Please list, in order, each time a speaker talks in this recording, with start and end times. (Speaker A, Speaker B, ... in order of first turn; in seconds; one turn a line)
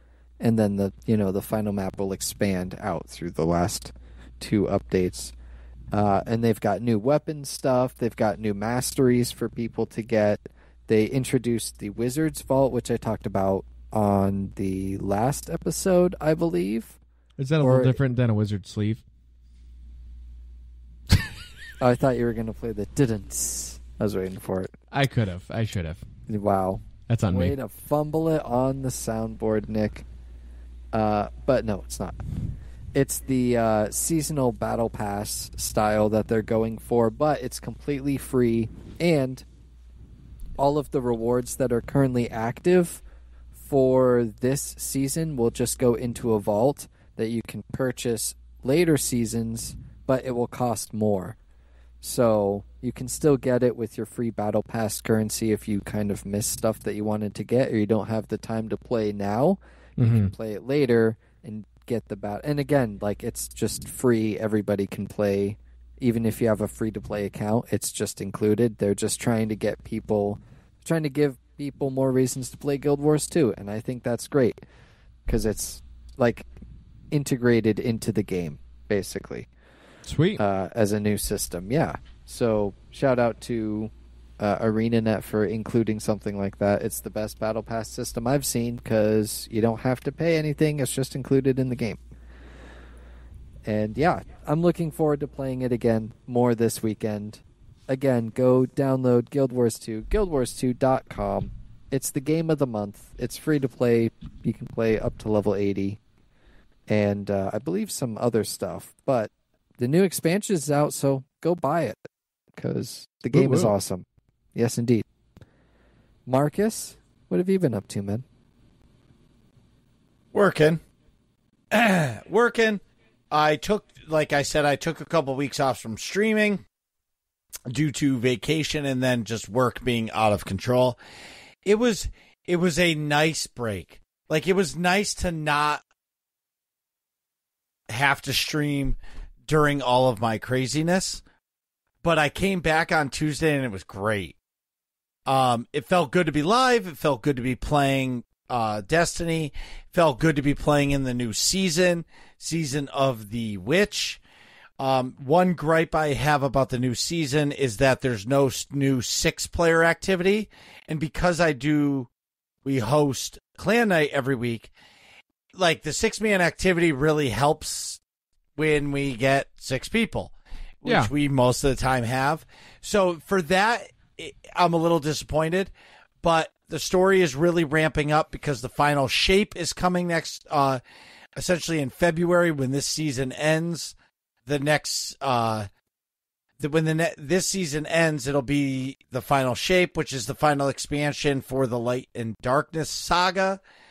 Speaker A: 0.4-5.3
Speaker A: 5.9-17.0
Speaker B: 17.4-19.0
Speaker A: 17.6-18.0
Speaker A: 21.8-24.7
Speaker B: 24.9-26.0
Speaker A: 26.3-30.1
Speaker B: 27.1-27.6
Speaker A: 30.9-32.2
Speaker A: 32.9-39.5
Speaker A: 40.6-43.0
Speaker A: 43.6-51.4
Speaker A: 52.0-74.6
Speaker B: 60.0-60.3
Speaker A: 75.3-76.5
Speaker A: 77.1-79.5
Speaker B: 80.1-80.4
Speaker A: 80.4-92.0
Speaker A: 93.7-106.0
Speaker A: 106.9-112.0
Speaker A: 112.6-115.0
Speaker B: 113.3-113.7
Speaker A: 116.3-118.2
Speaker C: 120.3-120.8
Speaker C: 121.7-126.6
Speaker C: 127.7-131.0
Speaker C: 131.7-135.8
Speaker C: 137.9-141.2
Speaker C: 142.0-144.4
Speaker C: 145.3-154.2
Speaker C: 154.8-162.1
Speaker C: 162.7-164.7
Speaker C: 165.6-168.0
Speaker C: 168.6-180.8
Speaker B: 170.8-171.1
Speaker C: 181.4-183.9
Speaker C: 184.5-185.7
Speaker C: 186.6-193.6